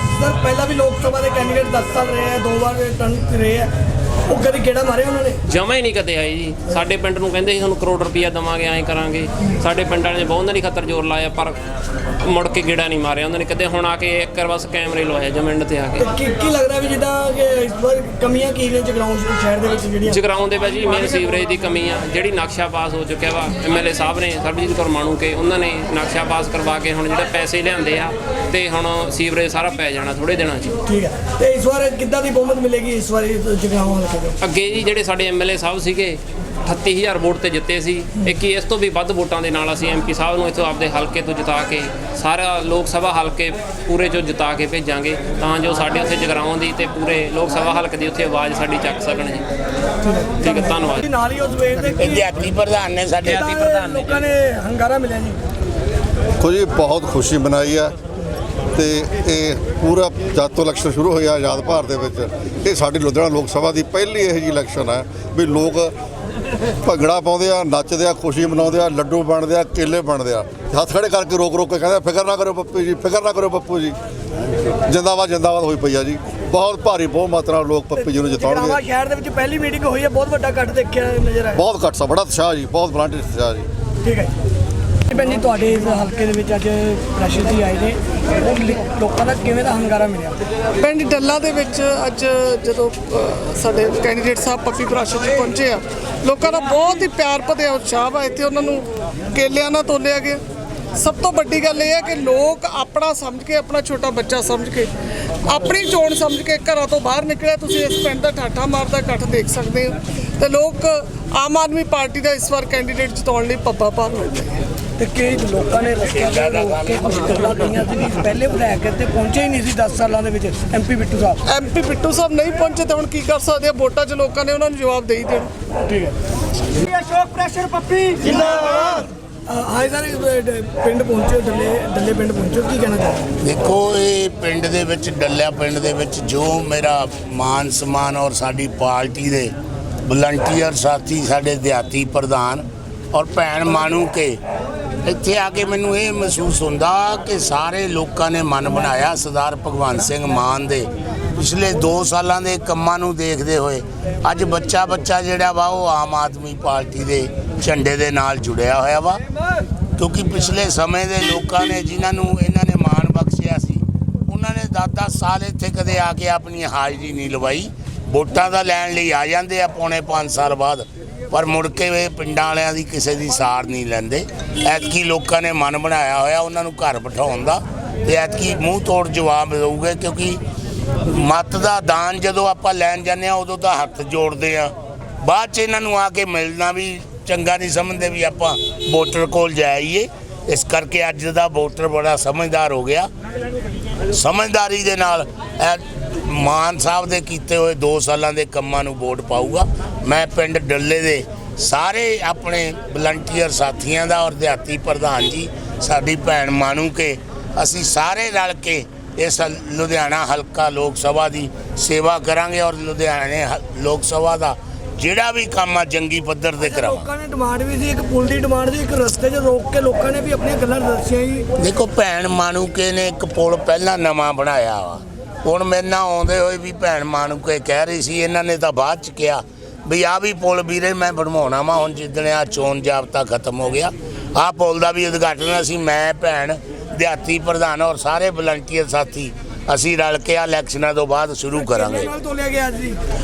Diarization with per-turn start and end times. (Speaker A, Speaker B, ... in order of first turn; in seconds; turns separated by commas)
Speaker A: 0.1-3.7, Speaker A: 4.3-5.4, Speaker B: 5.4-11.6, Speaker B: 12.2-16.1, Speaker A: 16.0-20.2, Speaker B: 20.1-30.8, Speaker A: 30.9-34.4, Speaker B: 34.4-49.4, Speaker A: 50.0-52.2, Speaker B: 50.4-51.1, Speaker C: 52.0-54.1, Speaker A: 53.2-55.4, Speaker D: 56.4-57.9, Speaker D: 58.7-65.9, Speaker D: 66.8-74.0, Speaker D: 74.8-78.8, Speaker A: 78.0-81.6, Speaker D: 81.5-83.7, Speaker A: 84.0-84.3, Speaker A: 85.1-90.4, Speaker E: 90.8-100.4, Speaker E: 101.0-104.9, Speaker E: 105.4-114.6, Speaker A: 115.0-121.4, Speaker C: 116.0-117.8, Speaker E: 121.5-125.5, Speaker A: 125.9-126.1, Speaker A: 126.7-133.3, Speaker E: 127.1-128.4, Speaker C: 133.4-139.5, Speaker C: 140.1-144.4, Speaker C: 145.0-159.2, Speaker C: 160.0-180.4, Speaker C: 181.0-193.1, Speaker C: 194.1-217.1, Speaker A: 216.6-221.5, Speaker C: 221.6-242.1, Speaker A: 241.6-243.0